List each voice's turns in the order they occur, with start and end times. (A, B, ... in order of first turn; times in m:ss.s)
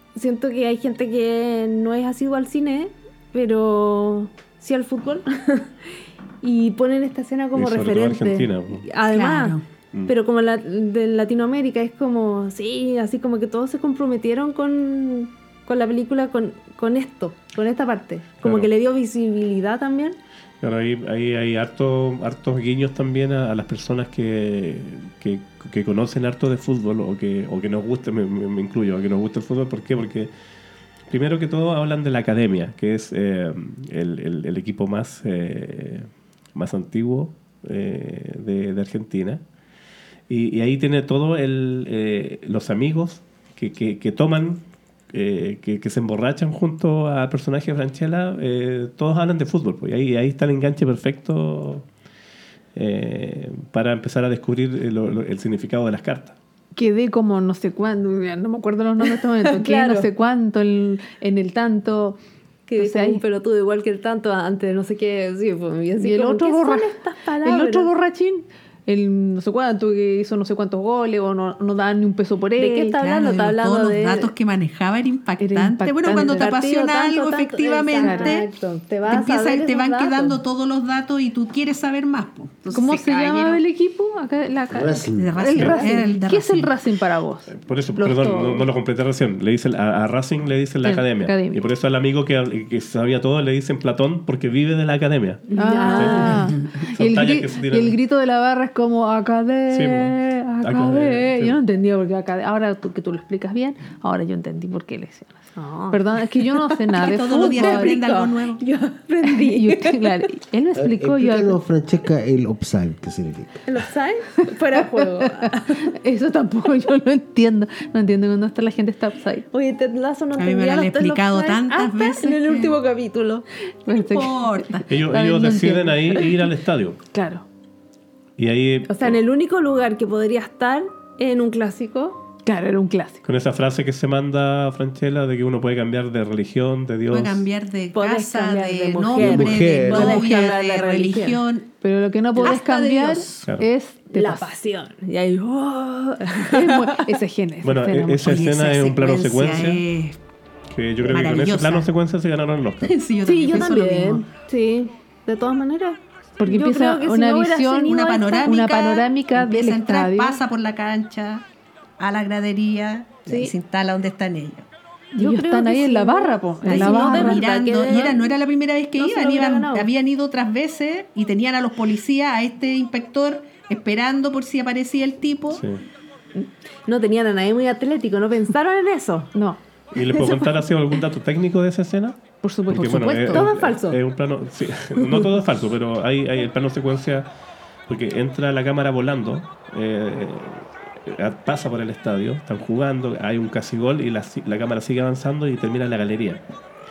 0:00.1-0:05.7 A
0:06.4-0:20.2 A
0:07.5-0:08.9 B
0:09.1-0:09.6 C
0:18.4-0:18.7 B
0:20.6-0:30.3 B
0:31.1-0:39.4 B
0:40.3-0:51.8 B
0:52.7-0:56.4 B
0:56.7-1:02.2 D
0:59.4-1:00.1 A
1:02.7-1:07.9 A
1:02.8-1:03.2 D
1:06.0-1:06.9 D
1:07.4-1:13.0 D
1:12.6-1:14.3 A
1:13.0-1:18.5 C
1:15.4-1:16.5 D
1:16.1-1:20.4 A
1:18.0-1:18.4 D
1:19.1-1:23.6 C
1:22.7-1:27.5 D
1:24.7-1:25.5 E
1:25.1-1:26.7 C
1:27.5-1:38.0 B
1:28.0-1:28.6 A
1:30.8-1:31.6 D
1:35.5-1:36.5 A
1:35.6-1:45.4 D
1:39.7-1:41.6 B
1:45.6-1:50.2 A
1:45.9-1:48.0 D
1:47.0-1:48.6 C
1:49.2-1:51.6 D
1:50.7-1:53.6 E
1:53.6-1:55.9 A
1:55.0-1:59.4 D
1:59.5-2:03.4 A
2:00.4-2:02.7 C
2:03.9-2:06.3 D
2:04.0-2:04.9 C
2:04.9-2:07.0 B
2:07.1-2:07.4 D
2:08.4-2:09.2 B
2:08.9-2:12.2 A
2:12.4-2:13.2 D
2:13.2-2:17.4 B
2:17.1-2:21.7 C
2:17.9-2:21.4 A
2:19.2-2:20.3 E
2:21.8-2:24.5 D
2:22.4-2:23.5 C
2:24.1-2:27.1 A
2:26.5-2:28.4 D
2:27.6-2:29.8 B
2:28.2-2:30.2 C
2:30.7-2:33.0 B
2:31.0-2:31.9 C
2:32.8-2:34.3 C
2:33.2-2:38.6 A
2:36.4-2:40.4 D
2:37.8-2:41.4 C
2:42.0-2:44.6 C
2:43.3-2:43.5 A
2:45.1-2:47.4 D
2:45.2-2:48.4 A
2:46.7-2:55.6 C
2:49.0-2:49.9 A
2:55.5-2:55.8 B
2:56.3-2:59.3 A
2:59.3-2:59.6 D
2:59.9-3:07.3 B
3:00.0-3:00.6 A
3:02.4-3:03.5 D
3:03.0-3:04.0 A
3:07.9-3:16.4 B